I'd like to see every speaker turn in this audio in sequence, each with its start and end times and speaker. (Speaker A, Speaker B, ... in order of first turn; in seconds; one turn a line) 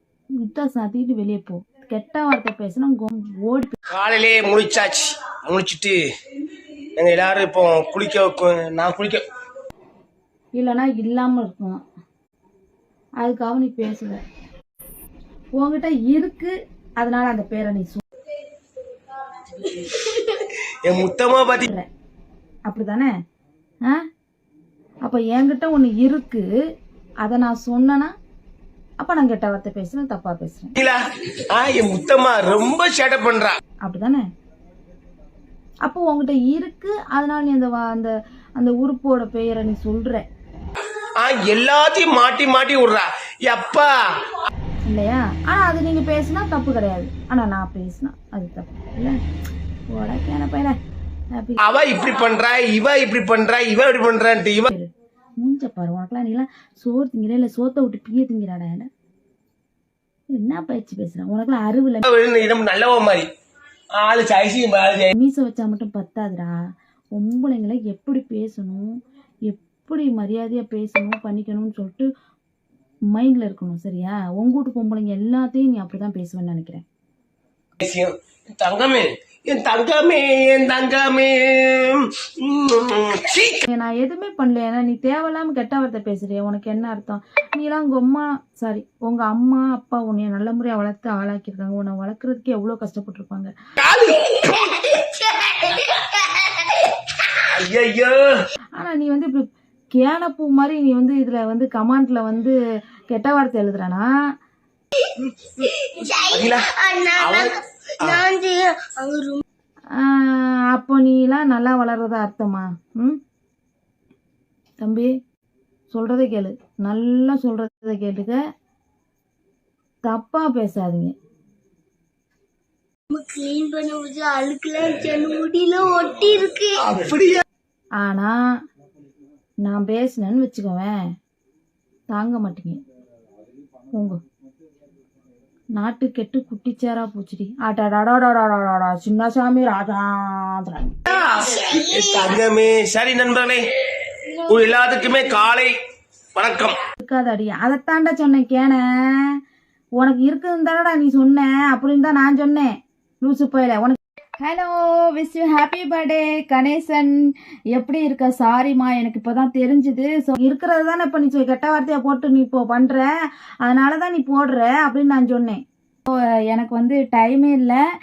Speaker A: 0.4-3.8
Speaker B: 3.9-6.0
Speaker B: 7.0-9.3
Speaker A: 10.6-11.8
Speaker A: 13.2-14.2
Speaker A: 15.6-18.0
Speaker B: 19.3-21.7
Speaker A: 22.7-23.1
Speaker A: 25.1-26.5
Speaker A: 27.2-28.1
Speaker A: 29.0-30.8
Speaker B: 30.8-33.6
Speaker A: 33.8-34.3
Speaker A: 35.9-40.3
Speaker B: 41.2-43.9
Speaker A: 44.9-49.2
Speaker A: 49.9-50.8
Speaker A: 51.4-51.6
Speaker B: 51.6-54.7
Speaker A: 55.4-58.9
Speaker A: 60.3-62.0
Speaker B: 62.0-63.3
Speaker B: 64.0-65.1
Speaker A: 65.1-66.6
Speaker A: 67.2-72.1
Speaker A: 73.1-76.8
Speaker B: 77.8-83.7
Speaker A: 83.7-93.5
Speaker B: 93.8-94.9
Speaker B: 97.5-98.4
Speaker A: 98.8-102.6
Speaker A: 103.1-104.1
Speaker C: 105.6-109.4
Speaker B: 106.3-106.7
Speaker B: 107.2-108.2
Speaker A: 109.9-113.2
Speaker A: 114.8-115.1
Speaker A: 115.9-118.4
Speaker A: 120.0-121.1
Speaker C: 123.1-126.8
Speaker B: 126.8-127.4
Speaker A: 128.0-128.3
Speaker A: 129.6-131.0
Speaker A: 132.1-132.8
Speaker A: 133.9-134.2
Speaker A: 135.8-141.0
Speaker B: 141.1-143.6
Speaker B: 144.4-145.7
Speaker B: 146.3-146.8
Speaker A: 147.0-149.4
Speaker A: 150.0-163.1
Speaker A: 163.6-167.8